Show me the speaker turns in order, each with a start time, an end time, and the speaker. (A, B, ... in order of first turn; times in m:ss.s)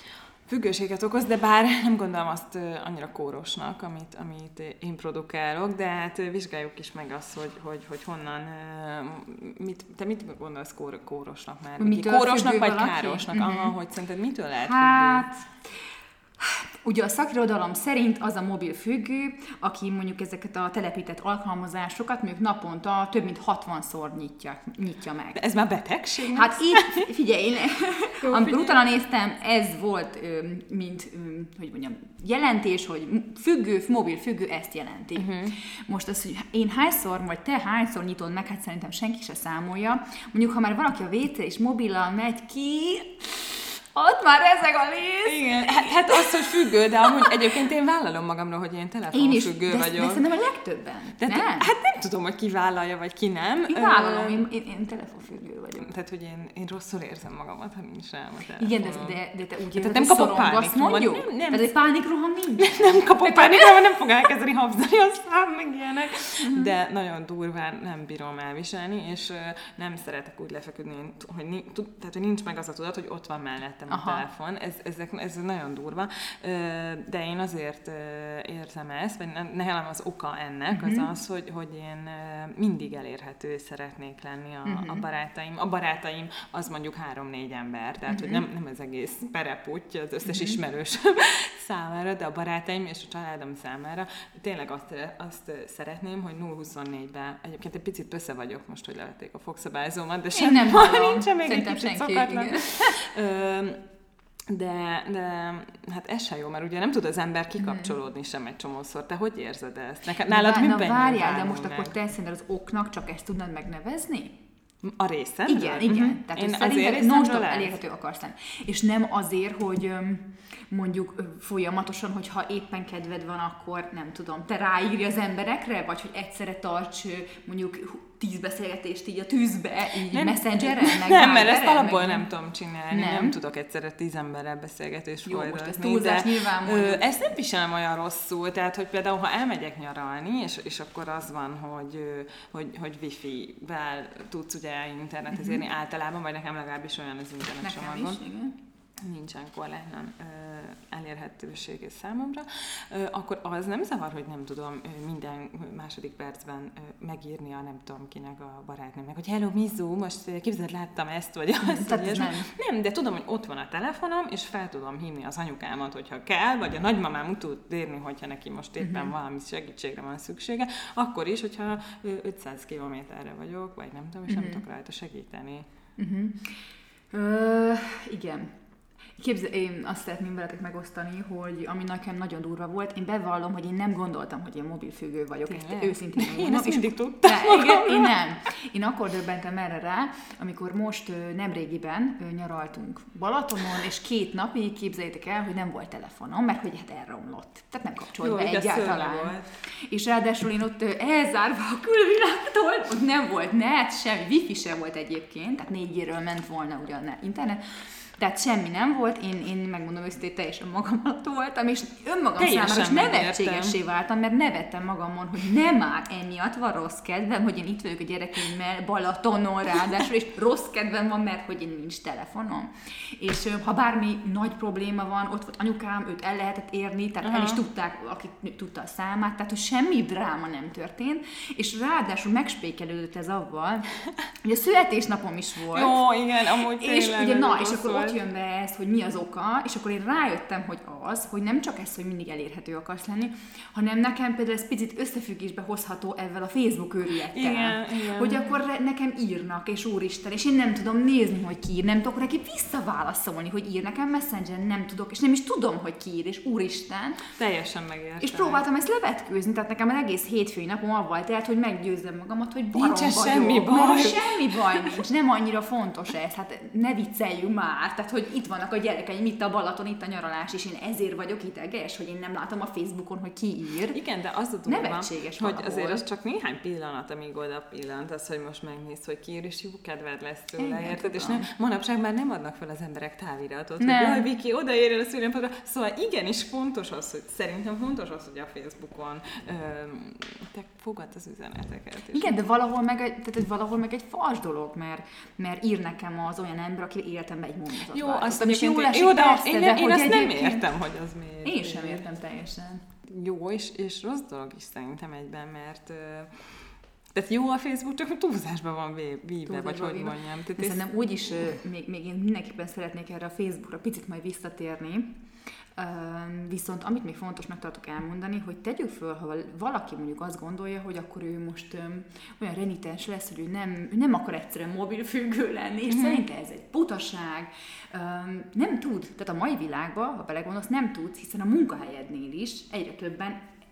0:00.5-0:15.3 A
0:11.8-0:13.8 B
0:14.6-0:15.5 B
0:16.4-0:25.4 B
0:25.4-0:27.1 A
0:26.3-0:47.4 B
0:28.2-0:28.8 A
0:35.2-0:35.6 A
0:45.2-0:50.2 A
0:49.1-0:51.7 B
0:51.2-0:54.5 A
0:53.7-0:55.9 B
0:55.8-0:59.2 A
0:58.6-1:03.8 B
0:59.7-1:01.7 A
1:02.6-1:43.8 A
1:06.4-1:06.7 B
1:13.9-1:14.2 B
1:20.7-1:21.1 B
1:24.6-1:25.0 B
1:28.1-1:28.4 B
1:30.2-1:30.6 B
1:40.3-1:43.0 B
1:44.5-1:51.9 A
1:47.6-1:47.9 B
1:50.2-1:54.4 B
1:54.8-1:57.8 A
1:55.5-2:12.3 B
2:10.1-2:28.2 A
2:12.9-2:13.4 B
2:15.2-2:17.0 B
2:25.3-2:25.6 B
2:27.6-2:28.6 B
2:29.0-2:55.7 A
2:41.6-2:42.5 B
2:48.8-2:49.1 B
2:54.3-2:54.6 B
2:56.0-2:58.6 B
2:59.2-3:53.9 B
3:05.5-3:08.2 A
3:18.2-3:19.5 A
3:32.4-3:33.8 A
3:47.2-3:47.6 A
3:54.4-4:17.2 B
3:55.7-3:58.2 A
4:07.3-4:08.6 A
4:17.4-4:18.6 A
4:18.2-4:34.0 B
4:22.7-4:25.0 A
4:33.9-4:52.4 A
4:34.7-4:36.0 B
4:40.6-4:41.5 B
4:43.8-4:44.3 B
4:52.1-5:00.7 B
4:57.9-5:02.1 A
5:01.4-5:02.8 B
5:03.0-5:06.5 A
5:07.1-5:10.9 A
5:09.4-5:15.2 B
5:15.8-5:33.4 B
5:25.9-5:26.2 A